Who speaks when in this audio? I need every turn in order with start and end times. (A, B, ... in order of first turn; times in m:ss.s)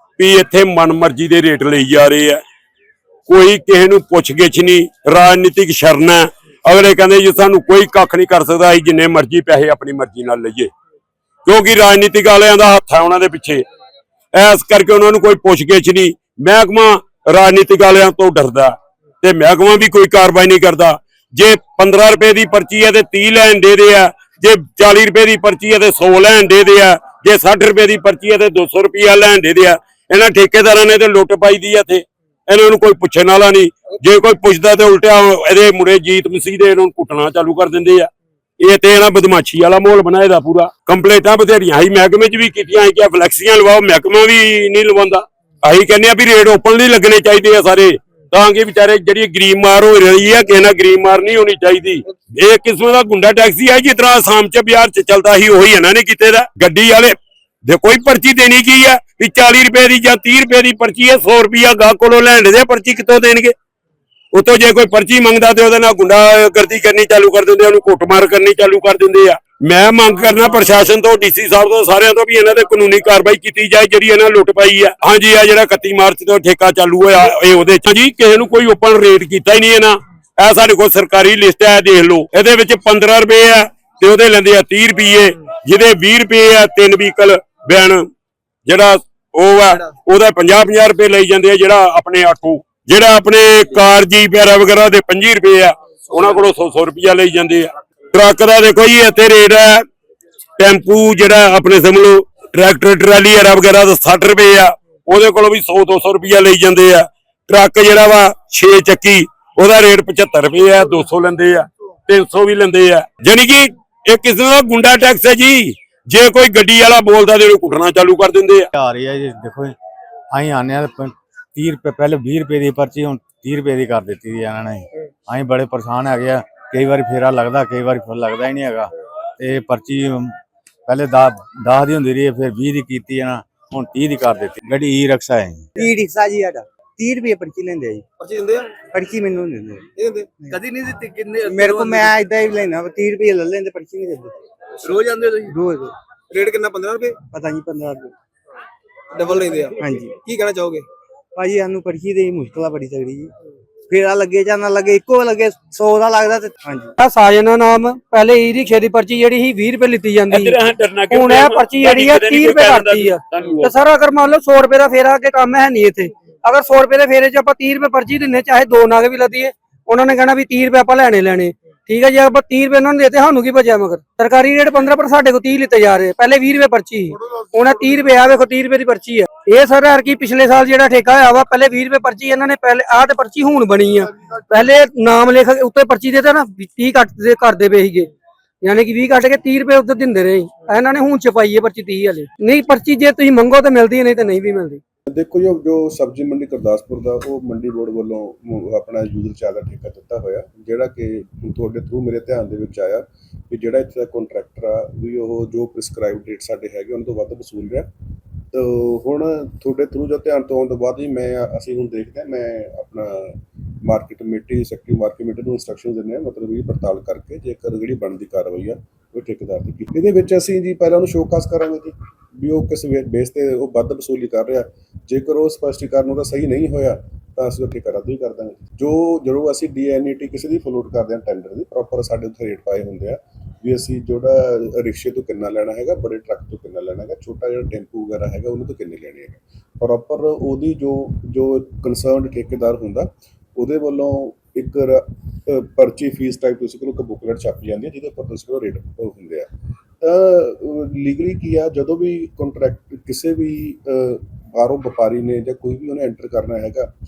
0:00.2-0:02.4 A
0:03.3-0:10.7 A
0:11.4-0:13.6 A
0:14.3-1:03.5 A
1:04.3-1:28.1 A
1:28.7-1:39.9 A
1:40.6-1:58.7 A
1:58.7-1:59.8 B
2:00.3-2:15.7 B
2:15.8-2:18.0 C
2:18.2-2:18.7 D
2:18.8-2:20.7 C
2:20.0-2:22.2 D
2:21.4-2:24.4 C
2:24.8-2:25.4 D
2:25.0-2:25.9 C
2:26.3-2:27.2 D
2:27.2-2:28.1 C
2:29.1-2:30.9 D
2:29.8-2:30.2 C
2:31.4-2:33.3 C
2:33.9-2:36.9 C
2:37.0-2:40.6 E
2:40.3-2:43.7 A
2:41.1-3:08.1 E
3:08.6-3:14.8 E
3:15.1-3:27.9 F
3:28.5-4:09.5 F
4:10.0-4:16.9 F